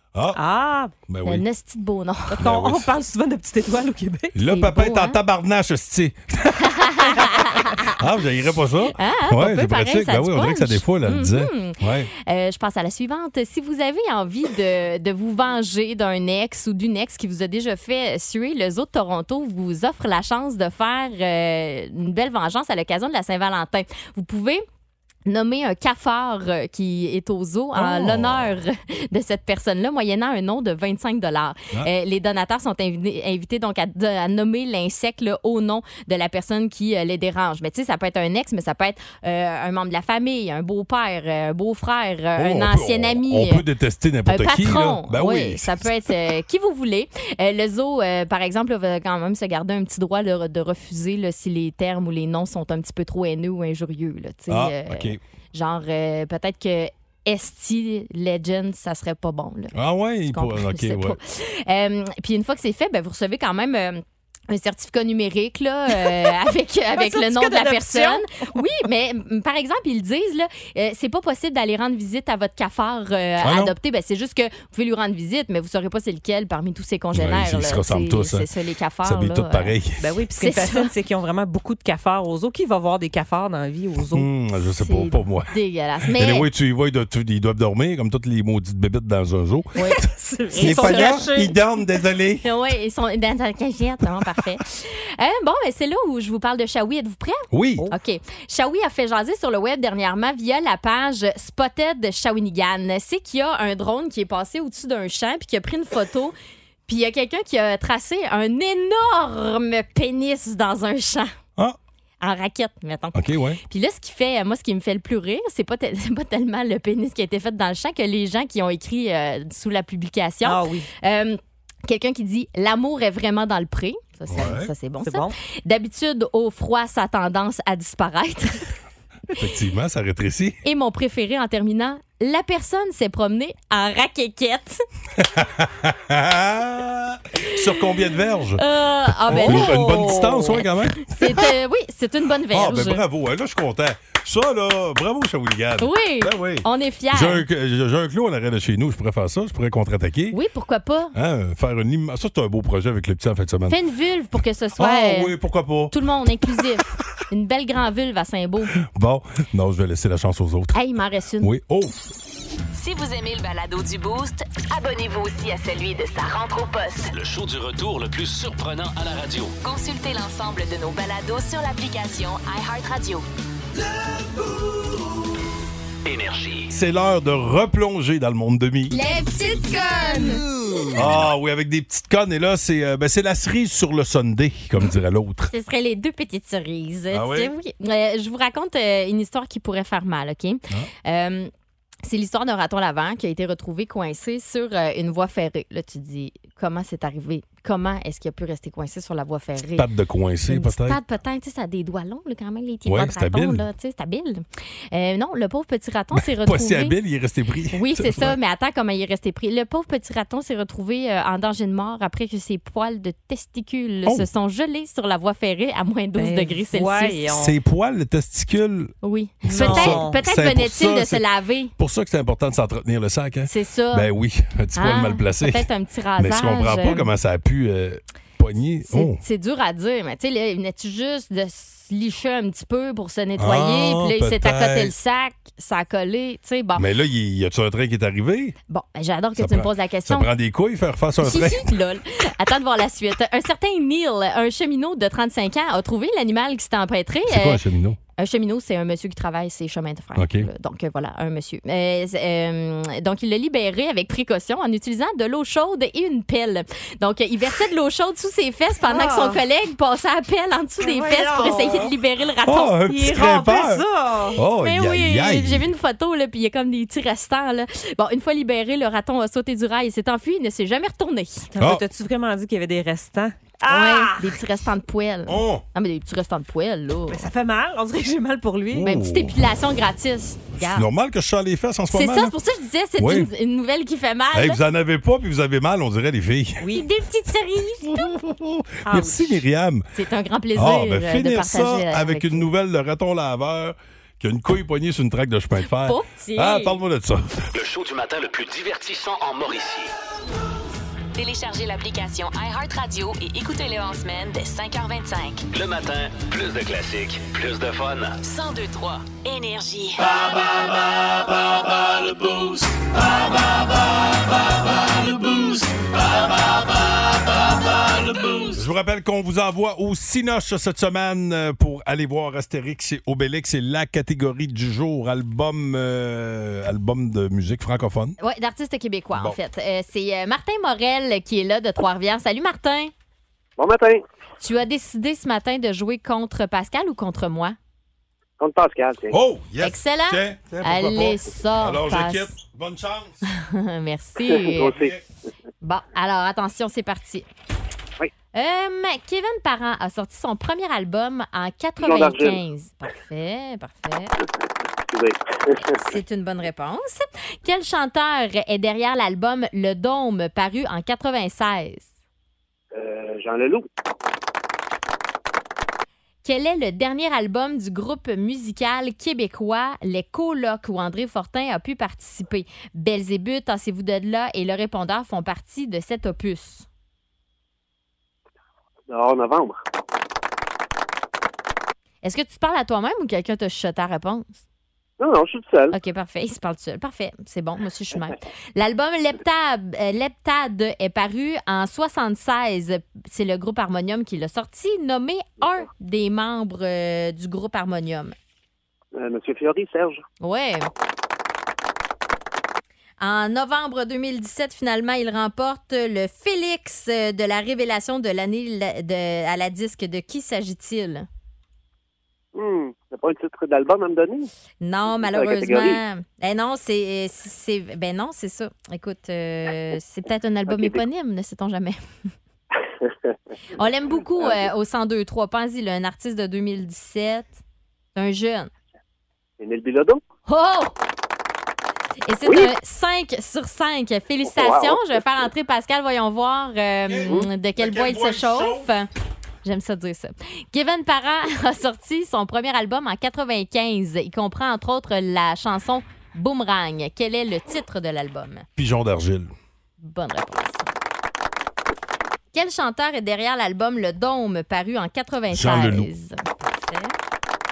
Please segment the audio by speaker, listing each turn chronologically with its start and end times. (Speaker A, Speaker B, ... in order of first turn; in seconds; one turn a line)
Speaker A: 0.1-0.4
Speaker B: 0.3-0.9
Speaker A: 1.0-1.4
Speaker C: 1.2-2.4
Speaker B: 2.3-4.3
Speaker A: 2.4-2.9
Speaker A: 4.3-6.7
Speaker C: 4.5-5.2
Speaker C: 6.7-7.9
Speaker A: 8.0-12.1
Speaker C: 9.0-24.6
Speaker C: 25.3-43.6
Speaker A: 27.7-28.6
Speaker A: 42.4-45.9
Speaker C: 44.3-59.7
Speaker A: 54.5-55.2
Speaker A: 59.7-61.2
Speaker C: 60.3-79.8
Speaker B: 65.9-66.4
Speaker B: 66.9-68.6
Speaker A: 73.4-73.7
Speaker A: 77.1-78.5
Speaker A: 79.0-80.0
Speaker B: 80.0-84.3
Speaker C: 80.4-80.9
Speaker A: 84.1-85.5
Speaker C: 84.8-86.5
Speaker A: 86.1-92.4
Speaker B: 89.8-91.5
Speaker C: 89.8-91.3
Speaker C: 92.4-106.3
Speaker A: 97.5-97.9
Speaker C: 106.8-111.3
Speaker C: 112.2-128.6
Speaker A: 113.1-113.6
Speaker B: 120.4-120.9
Speaker A: 124.3-124.7
Speaker B: 125.0-125.3
Speaker A: 129.4-130.6
Speaker C: 130.6-134.8
Speaker A: 135.2-138.6
Speaker C: 138.6-143.0
Speaker A: 139.3-141.5
Speaker B: 139.3-140.5
Speaker A: 142.5-150.4
Speaker C: 145.8-147.4
Speaker C: 150.3-151.1
Speaker A: 151.1-153.8
Speaker C: 153.7-155.3
Speaker A: 154.8-155.9
Speaker C: 155.9-158.7
Speaker A: 158.8-160.8
Speaker C: 160.7-161.5
Speaker A: 161.4-162.0
Speaker D: 162.7-167.1
Speaker E: 167.1-169.5
Speaker D: 169.6-173.2
Speaker E: 176.0-176.7
Speaker A: 176.7-179.0
Speaker C: 178.9-180.4
Speaker A: 180.9-185.5
Speaker C: 185.5-191.5
Speaker A: 187.1-187.5
Speaker C: 192.0-199.8
Speaker A: 199.7-201.0
Speaker C: 200.5-206.9
Speaker A: 202.8-203.6
Speaker A: 206.1-208.4
Speaker C: 207.7-217.2
Speaker B: 216.2-217.6
Speaker A: 217.3-218.9
Speaker C: 219.0-221.7
Speaker B: 219.4-220.2
Speaker A: 219.5-221.2
Speaker A: 221.8-229.2
Speaker C: 223.5-224.1
Speaker C: 224.8-227.1
Speaker C: 228.9-236.8
Speaker A: 233.4-234.9
Speaker A: 236.8-238.6
Speaker C: 238.7-240.3
Speaker A: 239.4-241.7
Speaker C: 241.2-247.6
Speaker A: 247.3-248.0
Speaker C: 248.2-262.8
Speaker A: 250.2-250.5
Speaker B: 258.9-259.4
Speaker B: 260.8-261.9
Speaker A: 262.4-265.7
Speaker B: 262.9-264.4
Speaker C: 264.6-271.5
Speaker B: 271.5-274.4
Speaker C: 273.7-277.2
Speaker A: 275.3-275.6
Speaker B: 277.1-278.9
Speaker A: 278.7-279.3
Speaker C: 278.8-280.9
Speaker A: 280.6-282.3
Speaker C: 281.9-284.6
Speaker A: 283.0-283.3
Speaker A: 284.3-286.6
Speaker C: 286.7-288.1
Speaker A: 287.9-289.9
Speaker B: 288.9-289.4
Speaker C: 289.9-292.5
Speaker A: 290.5-297.4
Speaker C: 295.6-296.8
Speaker E: 297.5-299.9
Speaker D: 301.1-305.4
Speaker E: 305.5-308.2
Speaker D: 308.2-310.1
Speaker E: 312.1-312.5
Speaker A: 318.5-328.2
Speaker C: 328.2-332.9
Speaker F: 333.6-334.0
Speaker C: 334.4-337.6
Speaker F: 338.4-339.2
Speaker A: 339.1-343.2
Speaker C: 339.6-342.3
Speaker C: 343.3-344.8
Speaker F: 344.2-344.9
Speaker C: 345.6-347.2
Speaker C: 348.3-354.1
Speaker F: 351.8-352.4
Speaker F: 354.9-355.6
Speaker C: 355.8-361.9
Speaker F: 362.7-363.6
Speaker C: 366.2-376.6
Speaker F: 378.9-379.6
Speaker C: 382.0-384.4
Speaker F: 385.0-385.8
Speaker C: 385.7-398.1
Speaker F: 398.9-400.0
Speaker C: 400.2-400.7
Speaker C: 403.0-411.1
Speaker F: 412.3-414.3
Speaker C: 414.6-421.8
Speaker F: 414.9-415.8
Speaker F: 420.5-420.8
Speaker C: 423.6-427.3
Speaker C: 427.9-428.5
Speaker F: 429.4-430.0
Speaker C: 430.3-430.7
Speaker C: 432.1-438.9
Speaker F: 432.2-432.5
Speaker F: 434.2-434.9
Speaker A: 436.9-438.7
Speaker C: 439.4-448.5
Speaker A: 448.6-449.3
Speaker C: 449.8-450.7
Speaker C: 452.3-456.9
Speaker A: 455.3-455.9